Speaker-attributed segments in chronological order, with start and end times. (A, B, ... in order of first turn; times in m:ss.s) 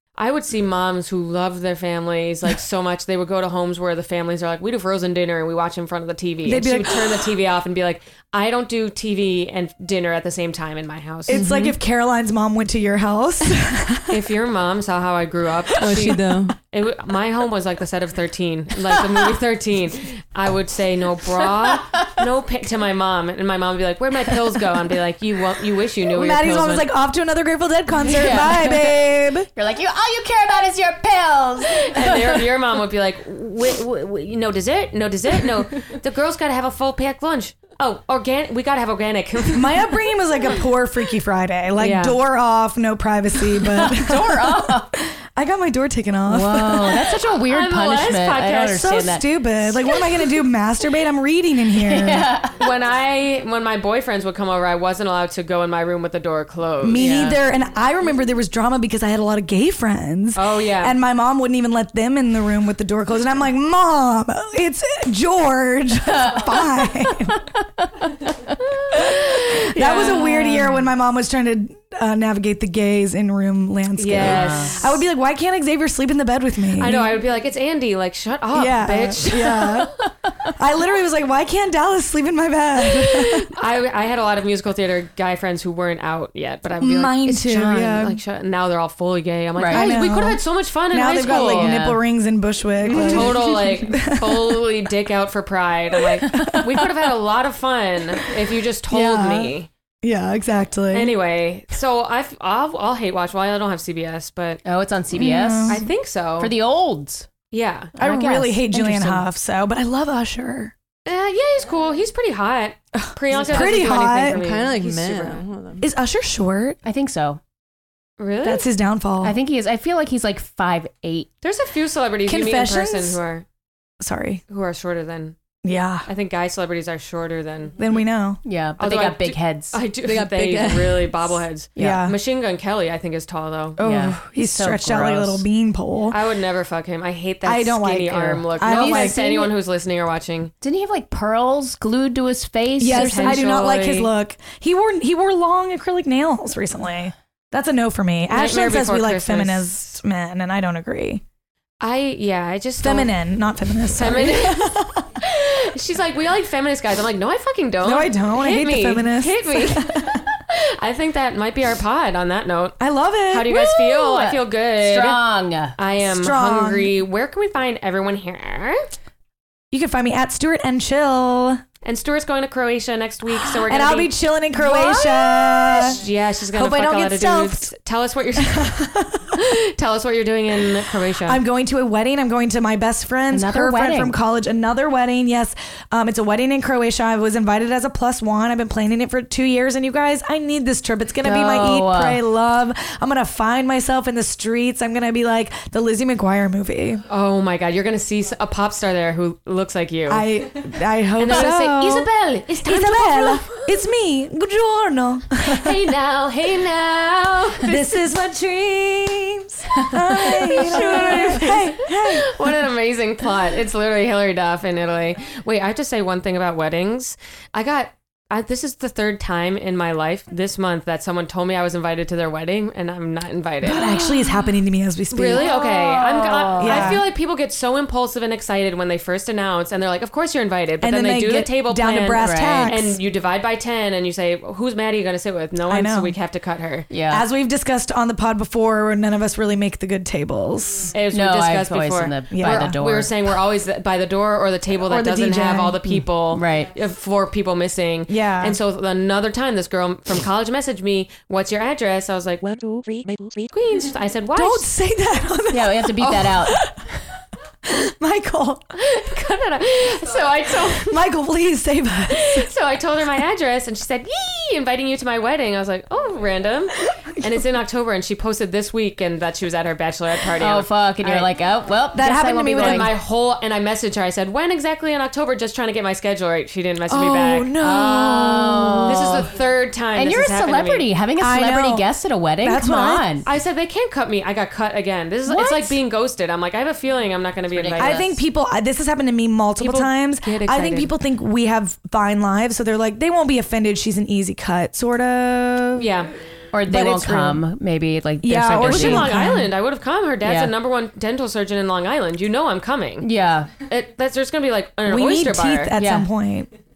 0:00.2-0:11.4 A
0:06.4-0:07.3 B
0:11.3-0:14.2 B
0:11.3-0:11.8 C
0:14.1-0:26.9 A
0:15.8-0:16.6 C
0:26.1-0:29.5 B
0:28.0-0:32.4 D
0:31.7-0:40.0 A
0:39.5-0:47.2 B
0:41.8-0:42.2 A
0:43.6-0:45.0 D
0:46.3-0:49.9 D
0:47.5-0:49.1 A
0:48.7-0:52.3 B
0:51.8-0:52.6 D
0:52.6-0:57.4 A
0:56.8-1:07.5 B
0:56.9-0:57.4 D
1:00.3-1:01.0 A
1:06.1-1:08.5 D
1:08.6-1:10.8 A
1:09.8-1:17.1 B
1:14.0-1:15.0 A
1:14.2-1:14.8 D
1:16.8-1:19.8 A
1:18.5-1:19.9 B
1:20.5-1:23.4 B
1:23.5-1:31.8 A
1:26.8-1:28.2 B
1:29.6-1:29.9 D
1:29.7-1:34.6 B
1:31.2-1:32.0 D
1:32.9-1:39.7 A
1:36.2-1:36.9 B
1:36.3-1:36.6 D
1:38.9-1:41.1 B
1:40.9-1:44.6 A
1:44.6-1:45.8 D
1:45.1-1:45.8 B
1:45.7-1:46.5 A
1:46.4-1:47.3 D
1:47.5-1:47.9 A
1:48.0-1:49.2 D
1:48.0-1:50.7 B
1:51.0-1:55.4 A
1:52.9-1:54.4 B
1:53.3-1:53.7 D
1:54.2-1:55.9 C
1:55.8-1:56.8 B
1:56.8-1:57.4 D
1:58.2-1:58.7 A
1:58.4-1:59.4 B
1:59.2-2:01.3 D
2:01.4-2:03.4 A
2:02.2-2:03.2 B
2:04.0-2:04.4 B
2:04.5-2:05.4 A
2:05.6-2:06.0 B
2:06.0-2:07.8 A
2:07.8-2:08.4 B
2:08.4-2:09.8 D
2:08.8-2:13.8 A
2:10.0-2:11.4 C
2:11.8-2:12.0 D
2:11.8-2:12.2 B
2:13.8-2:16.2 B
2:13.8-2:15.4 D
2:16.1-2:20.5 A
2:17.4-2:19.2 B
2:18.6-2:19.5 D
2:20.6-2:23.5 D
2:22.8-2:31.2 B
2:22.9-2:24.1 A
2:28.3-2:29.7 A
2:31.8-2:33.1 A
2:32.8-2:35.1 B
2:33.9-2:45.2 A
2:37.8-2:40.2 B
2:42.8-2:44.0 B
2:44.0-2:45.8 D
2:45.8-2:48.8 A
2:46.1-2:47.0 B
2:49.7-2:51.6 B
2:51.8-2:58.7 A
2:53.4-2:56.0 B
2:56.5-2:57.7 B
2:58.4-2:59.4 B
2:59.3-3:01.4 A
3:01.2-3:17.0 B
3:03.3-3:04.2 D
3:11.2-3:12.2 D
3:17.1-3:20.3 A
3:20.1-3:22.1 B
3:21.2-3:23.6 A
3:22.6-3:25.9 B
3:25.4-3:27.8 A
3:27.6-3:32.4 B
3:29.9-3:44.4 A
3:30.7-3:31.0 D
3:43.6-3:45.5 B
3:45.1-3:56.9 A
3:45.4-3:47.0 D
3:46.6-3:47.0 B
3:50.8-3:53.0 B
3:52.2-3:52.8 D
3:55.7-3:56.1 B
3:56.9-3:57.2 D
3:57.1-4:00.9 B
4:00.9-4:14.7 A
4:01.1-4:03.3 D
4:02.3-4:02.8 B
4:04.8-4:05.8 B
4:05.9-4:06.7 D
4:08.1-4:08.6 B
4:14.3-4:16.8 B
4:15.5-4:16.6 D
4:17.6-4:18.7 B
4:18.8-4:21.1 A
4:20.8-4:22.5 B
4:22.1-4:31.3 A
4:30.4-4:32.9 D
4:31.9-4:32.9 B
4:32.6-4:40.8 A
4:36.9-4:39.1 B
4:38.2-4:39.3 D
4:39.9-4:43.2 D
4:41.2-4:41.9 B
4:42.4-4:43.2 B
4:43.2-4:48.1 A
4:45.3-4:45.8 B
4:47.5-4:48.2 D
4:47.8-4:55.9 B
4:49.6-4:50.9 A
4:55.8-4:56.1 A
4:56.5-4:59.1 D
4:56.7-4:57.4 B
4:58.2-4:59.5 B
4:58.6-5:03.1 A
5:00.2-5:00.5 D
5:03.0-5:03.5 D
5:03.7-5:05.7 A
5:04.8-5:06.5 B
5:05.8-5:06.1 D